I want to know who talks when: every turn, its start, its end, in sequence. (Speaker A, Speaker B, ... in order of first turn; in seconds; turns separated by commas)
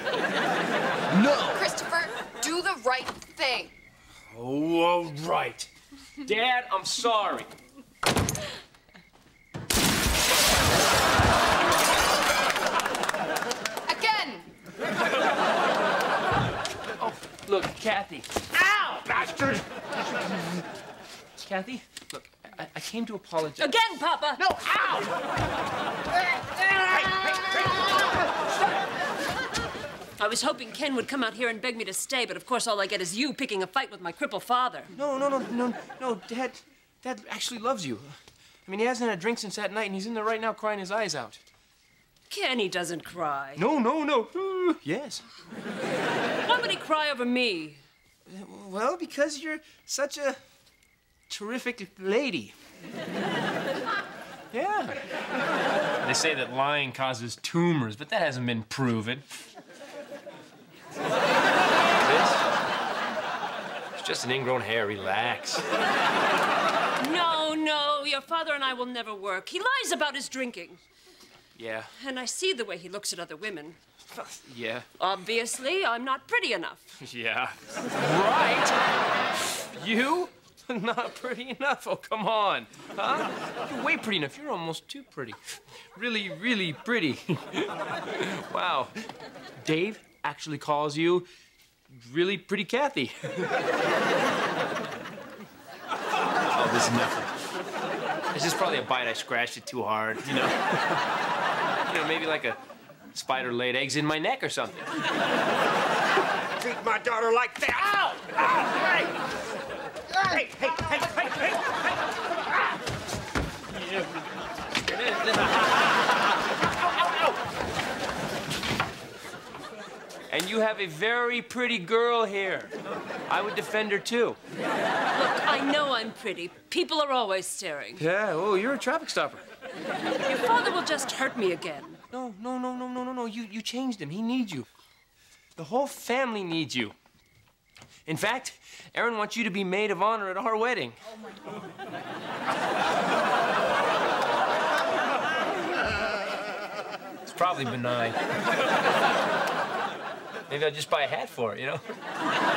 Speaker A: 1.1-1.6, Speaker B: 1.5-3.7, Speaker A: 4.3-7.5, Speaker B: 13.9-14.5, Speaker A: 17.0-18.6, Speaker C: 18.6-19.6, Speaker A: 21.4-23.7, Speaker D: 23.6-24.4, Speaker A: 26.6-27.8, Speaker D: 30.2-34.9, Speaker A: 35.0-41.4, Speaker D: 42.3-43.6, Speaker A: 43.6-45.2, Speaker D: 46.4-47.8, Speaker A: 48.3-50.4, Speaker A: 51.3-52.5, Speaker A: 54.5-55.0, Speaker A: 56.0-59.3, Speaker A: 62.0-62.4, Speaker A: 64.0-65.7, Speaker D: 67.0-70.8, Speaker A: 71.6-71.9, Speaker D: 72.0-73.8, Speaker A: 74.1-74.9, Speaker D: 75.0-77.0, Speaker A: 77.0-78.8, Speaker A: 79.4-88.9, Speaker A: 89.6-91.3, Speaker A: 91.9-93.6, Speaker A: 96.5-97.3, Speaker A: 98.3-101.0, Speaker A: 101.9-102.6, Speaker A: 103.1-104.9, Speaker C: 106.6-109.2, Speaker C: 110.1-111.8, Speaker A: 114.9-115.7, Speaker C: 117.0-117.3, Speaker A: 120.3-122.7, Speaker A: 123.3-124.4, Speaker D: 125.1-128.0, Speaker A: 128.0-129.4, Speaker D: 130.2-132.0, Speaker A: 132.1-134.7, Speaker A: 135.6-136.9, Speaker A: 138.1-141.0, Speaker A: 147.2-148.2, Speaker A: 150.5-151.8